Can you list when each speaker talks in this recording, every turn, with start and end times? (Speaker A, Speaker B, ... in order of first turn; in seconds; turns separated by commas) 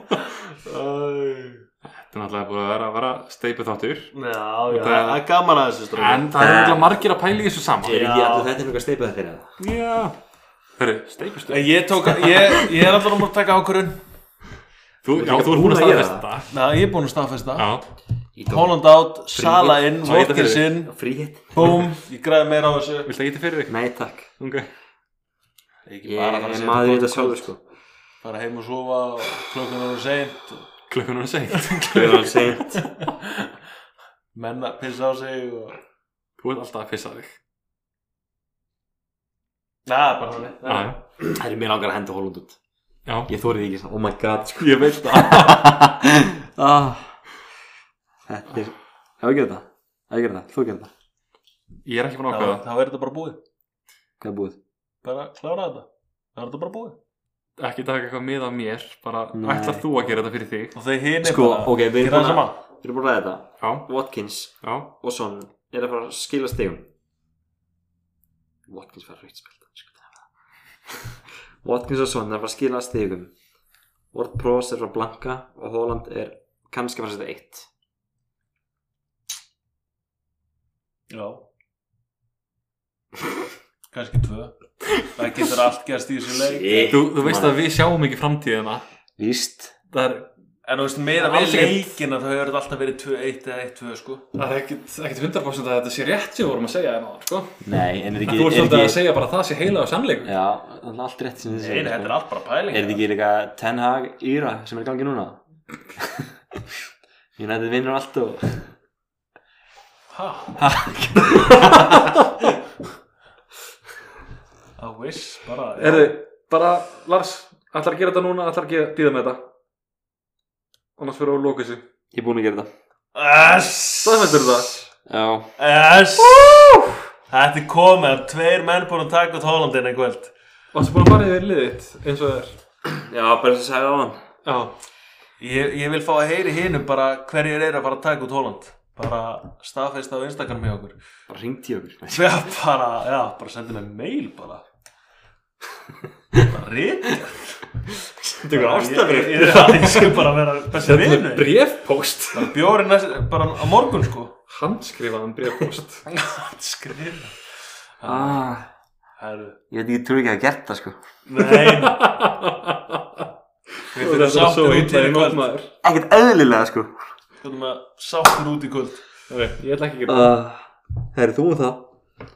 Speaker A: 0.5-1.6, Speaker B: 1.8-4.1, Speaker A: 4.1-6.3, Speaker B: 4.7-5.2, Speaker B: 5.9-8.0, Speaker C: 6.3-7.0, Speaker C: 7.8-9.5, Speaker A: 7.9-8.5, Speaker B: 9.6-10.1, Speaker B: 10.8-12.6, Speaker A: 11.5-14.0, Speaker B: 15.0-16.5, Speaker C: 15.1-16.3, Speaker A: 16.5-17.7, Speaker B: 17.6-17.8, Speaker C: 18.3-18.8, Speaker A: 18.5-20.9, Speaker B: 19.3-20.7, Speaker C: 20.7-21.8, Speaker A: 21.5-23.1, Speaker B: 23.1-23.8, Speaker C: 23.7-24.3, Speaker B: 24.4-24.7, Speaker A: 25.8-27.5, Speaker C: 26.0-27.6, Speaker A: 28.2-30.7, Speaker B: 30.9-32.4, Speaker A: 31.6-33.5, Speaker C: 31.9-32.8, Speaker A: 34.3-35.8, Speaker B: 36.4-37.4, Speaker A: 39.9-40.9, Speaker B: 40.6-41.0, Speaker C: 41.3-42.6, Speaker B: 43.0-43.3, Speaker C: 43.3-47.2, Speaker B: 44.6-45.8, Speaker C: 48.3-50.9, Speaker B: 51.8-52.6, Speaker A: 52.3-53.4, Speaker C: 54.2-54.6, Speaker A: 55.0-57.0, Speaker B: 57.6-60.7, Speaker C: 59.3-59.9, Speaker A: 60.7-62.6, Speaker C: 61.2-66.9, Speaker B: 63.6-63.9, Speaker B: 64.6-64.9, Speaker C: 68.7-70.2, Speaker C: 71.6-73.3, Speaker C: 74.1-77.7, Speaker A: 81.1-81.5, Speaker A: 83.9-87.0, Speaker C: 86.4-87.6, Speaker B: 86.9-88.8, Speaker C: 89.2-89.7, Speaker B: 89.9-90.3, Speaker A: 90.6-94.2, Speaker B: 91.2-92.0, Speaker B: 94.3-97.6, Speaker C: 97.6-99.0, Speaker B: 98.2-100.3, Speaker C: 100.2-105.4, Speaker A: 101.5-103.0, Speaker C: 106.0-106.3, Speaker C: 107.4-108.7, Speaker A: 110.1-110.6, Speaker C: 110.6-112.3, Speaker B: 111.3-112.2, Speaker A: 114.8-116.2, Speaker B: 115.8-119.4, Speaker B: 121.0-121.8, Speaker C: 122.1-122.7, Speaker A: 123.1-124.7, Speaker B: 124.0-124.9, Speaker C: 125.0-125.5, Speaker A: 125.6-126.7, Speaker B: 126.3-127.0, Speaker A: 127.3-130.3, Speaker B: 130.7-132.6, Speaker C: 132.8-134.2, Speaker B: 134.4-134.7, Speaker A: 135.4-140.9, Speaker C: 141.3-142.5, Speaker A: 142.1-144.6, Speaker A: 146.4-147.4, Speaker C: 147.9-149.9, Speaker A: 148.5-151.5, Speaker B: 149.3-152.5, Speaker A: 152.3-154.3, Speaker B: 154.5-156.1, Speaker A: 156.1-157.5, Speaker A: 158.0-158.4, Speaker C: 158.0-158.7, Speaker A: 159.2-159.6, Speaker C: 159.7-161.0, Speaker A: 161.2-162.1, Speaker B: 161.4-163.3, Speaker A: 163.9-165.5, Speaker B: 163.9-165.7, Speaker C: 165.8-166.9, Speaker A: 167.4-169.0, Speaker B: 169.3-170.4, Speaker C: 170.1-171.9